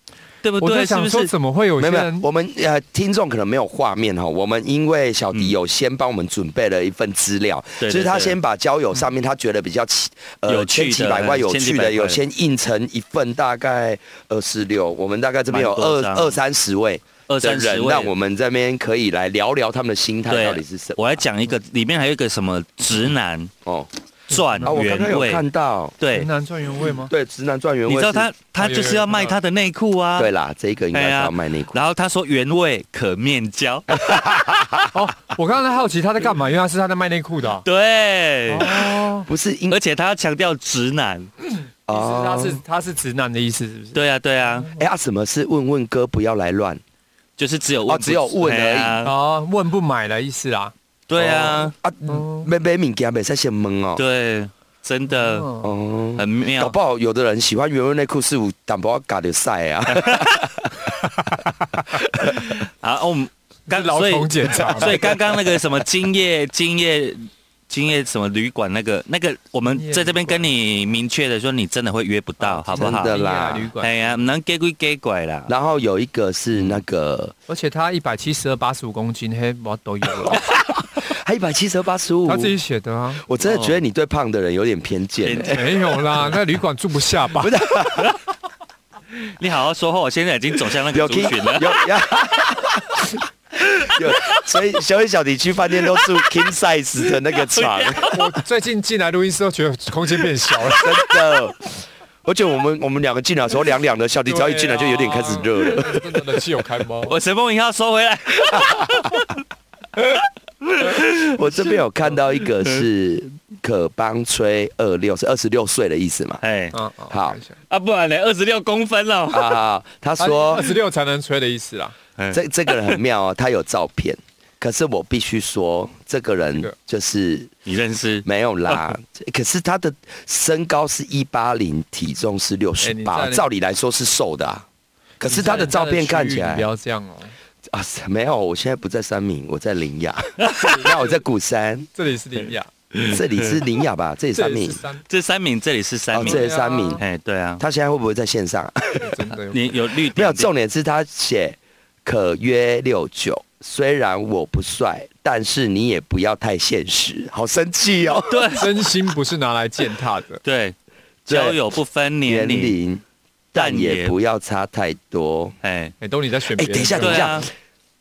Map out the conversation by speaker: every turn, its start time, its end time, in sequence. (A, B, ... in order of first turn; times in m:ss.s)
0:00.4-0:01.3 A
0:00.6-0:02.3 B
0:01.8-0:21.1 C
0:07.8-0:08.4 A
0:10.5-0:12.2 A
0:15.5-0:16.4 A
0:17.3-0:18.1 A
0:20.3-0:23.5 A
0:24.3-0:25.4 A
0:24.3-0:24.7 B
0:24.6-0:26.0 C
0:26.0-0:26.3 A
0:26.1-0:27.1 B
0:27.1-0:28.3 C
0:27.9-0:30.3 A
0:28.6-0:29.4 B
0:30.2-0:31.8 C
0:30.9-0:34.6 A
0:33.9-0:34.8 C
0:34.9-0:37.6 B
0:37.6-0:39.0 A
0:38.5-0:39.3 B
0:39.2-0:39.8 C
0:39.7-0:41.3 A
0:41.9-0:42.6 C
0:41.9-0:44.8 B
0:43.9-0:44.7 A
0:44.7-0:46.8 C
0:47.4-0:49.1 A
0:47.9-0:49.0 C
0:49.0-0:50.7 B
0:51.1-0:51.7 A
0:51.2-0:54.0 C
0:52.1-0:52.5 B
0:54.0-0:55.5 A
0:55.2-0:55.7 B
0:55.6-1:00.9 C
0:56.2-0:56.7 A
0:59.9-1:00.4 A
1:01.0-1:01.6 B
1:01.9-1:02.5 C
1:02.2-1:13.2 A
1:03.7-1:05.1 B
1:04.8-1:05.1 C
1:09.7-1:10.4 B
1:12.4-1:14.2 B
1:12.7-1:13.7 C
1:13.8-1:15.5 A
1:15.5-1:17.3 C
1:16.6-1:16.8 A
1:17.5-1:20.4 B
1:20.2-1:22.5 C
1:22.2-1:23.2 B
1:23.2-1:25.7 C
1:23.4-1:23.8 A
1:25.2-1:26.3 A
1:25.4-1:27.6 B
1:27.4-1:28.2 C
1:29.2-1:31.8 A
1:30.9-1:38.1 C
1:33.9-1:34.4 A
1:35.9-1:36.2 A
1:37.3-1:38.3 A
1:38.1-1:41.1 B
1:40.7-1:41.7 C
1:42.2-1:46.2 C
1:44.2-1:47.2 B
1:47.0-1:49.4 A
1:48.5-1:49.0 C
1:50.6-1:51.5 A
1:51.2-1:56.4 C
1:56.4-1:56.7 A
1:56.7-1:57.6 B
1:57.1-1:57.4 C
1:57.7-1:59.6 A
1:59.3-2:00.7 C
2:00.2-2:01.9 B
2:02.2-2:03.0 A
2:02.3-2:07.5 C
2:07.6-2:09.0 A
2:08.2-2:14.6 C
2:12.8-2:13.5 B
2:15.2-2:16.7 C
2:15.2-2:17.3 B
2:17.6-2:21.9 C
2:20.4-2:20.7 A
2:20.6-2:21.2 B
2:21.9-2:22.7 B
2:22.9-2:23.6 A
2:23.0-2:24.8 C
2:24.3-2:25.0 B
2:25.1-2:26.4 A
2:26.1-2:27.0 C
2:26.2-2:27.0 B
2:27.0-2:27.6 A
2:27.6-2:29.2 C
2:29.0-2:29.7 B
2:29.5-2:30.5 A
2:30.0-2:38.7 C
2:38.3-2:38.7 A
2:38.5-2:40.4 B
2:40.4-2:40.7 A
2:41.3-2:42.7 A
2:41.3-2:41.6 C
2:42.2-2:45.6 C
2:43.5-2:44.2 A
2:45.6-2:45.9 A
2:46.0-2:47.4 B
2:46.6-2:47.5 C
2:46.9-2:47.4 A